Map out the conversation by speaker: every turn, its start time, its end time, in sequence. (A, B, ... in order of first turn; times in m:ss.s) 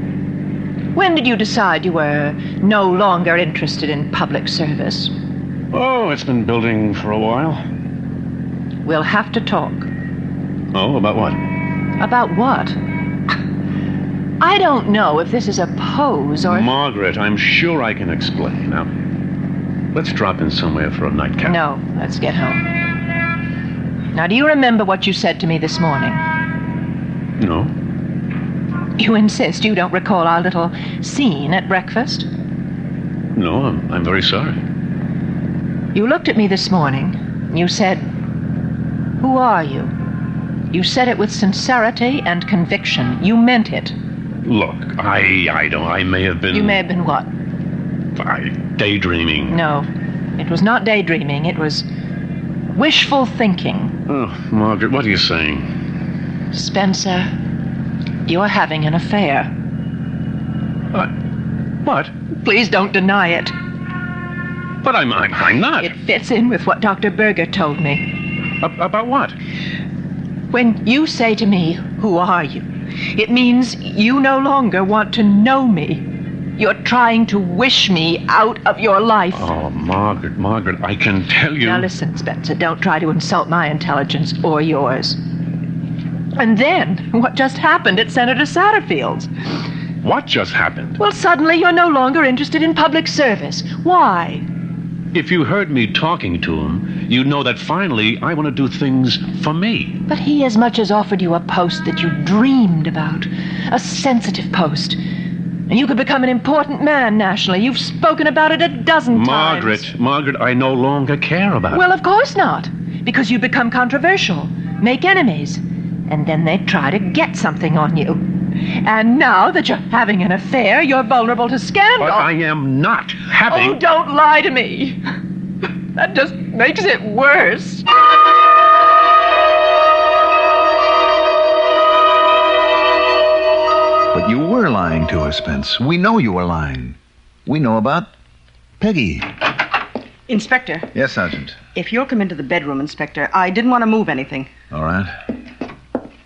0:00.9-0:05.1 A
0:05.7-0:07.6 B
0:08.8-0:09.9 A
0:10.7-0:11.4 B
0:12.0-0:12.8 A
0:14.4-0:16.7 A
0:16.4-0:18.9 B
0:19.9-0:21.6 B
0:21.4-0:22.7 A
0:24.1-0:26.2 A
0:27.4-0:27.7 B
0:29.0-0:32.3 A
0:33.3-0:34.6 B
0:35.9-0:38.1 A
0:39.2-0:39.9 A
0:40.7-0:43.9 A
0:44.4-0:46.8 B
0:46.5-0:47.3 A
0:48.2-0:49.6 B
0:49.5-0:51.8 A
0:52.7-0:54.0 A
0:54.1-0:55.7 B
0:56.5-0:57.3 A
0:58.3-0:59.5 A
1:01.8-1:02.1 B
1:02.4-1:03.5 A
1:04.8-1:05.9 B
1:05.8-1:08.1 A
1:08.6-1:09.4 B
1:10.5-1:19.5 A
1:19.3-1:21.9 B
1:21.6-1:25.2 A
1:26.4-1:29.3 A
1:30.0-1:31.0 B
1:31.0-1:34.4 A
1:35.1-1:40.0 B
1:40.1-1:45.0 A
1:45.7-1:49.8 A
1:49.1-1:51.8 B
1:51.7-2:02.3 A
2:02.0-2:03.8 B
2:03.5-2:05.0 A
2:06.0-2:07.8 A
2:14.1-2:18.1 C
2:18.8-2:19.3 C
2:20.3-2:20.9 D
2:20.9-2:21.6 C
2:21.7-2:24.5 D
2:24.7-2:25.1 C